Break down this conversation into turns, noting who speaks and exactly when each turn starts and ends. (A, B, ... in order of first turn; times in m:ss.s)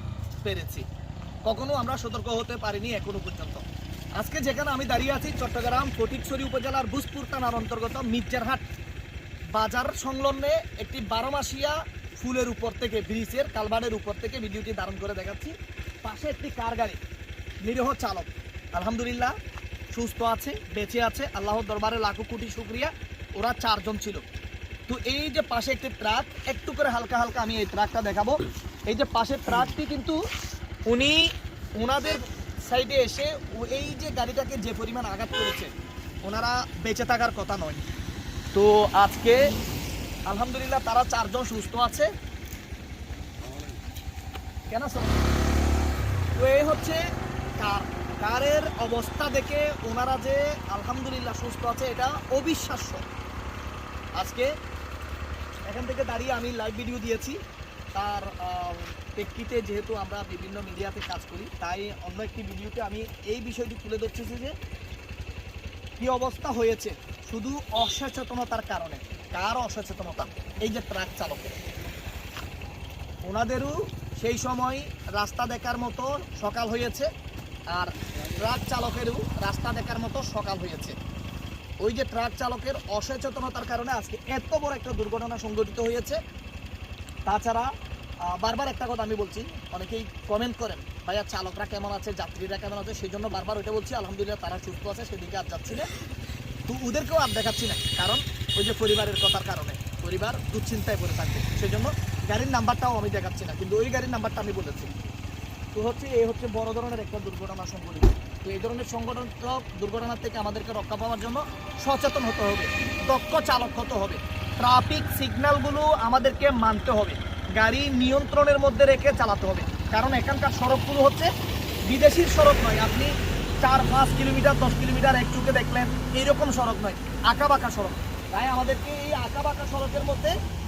0:00.4-0:00.8 A
0:01.4-0:03.6 A
0:04.2-0:08.6 A
0:09.5-0:17.0 A
0:17.6-0:19.3 A
0:19.9-0:24.2 A
0:24.9-0:30.2 A
0:30.9-0:31.2 A
0:31.8-0:35.7 A
0:36.2-0:37.8 A
0:38.5-0:39.5 A
0:40.3-0:42.1 A
0:44.7-0:45.2 A
0:46.4-0:47.0 A
0:47.6-0:53.0 A
0:54.2-0:54.5 A
0:55.7-0:57.4 A
0:58.0-1:04.5 A
1:06.0-1:11.6 A
1:13.2-1:17.1 A
1:17.7-1:20.9 A
1:21.8-1:26.2 A
1:27.2-1:27.7 A
1:28.3-1:35.9 A
1:36.7-1:44.9 A
1:45.7-2:01.3 A
2:01.9-2:03.1 A
2:03.6-2:10.4 A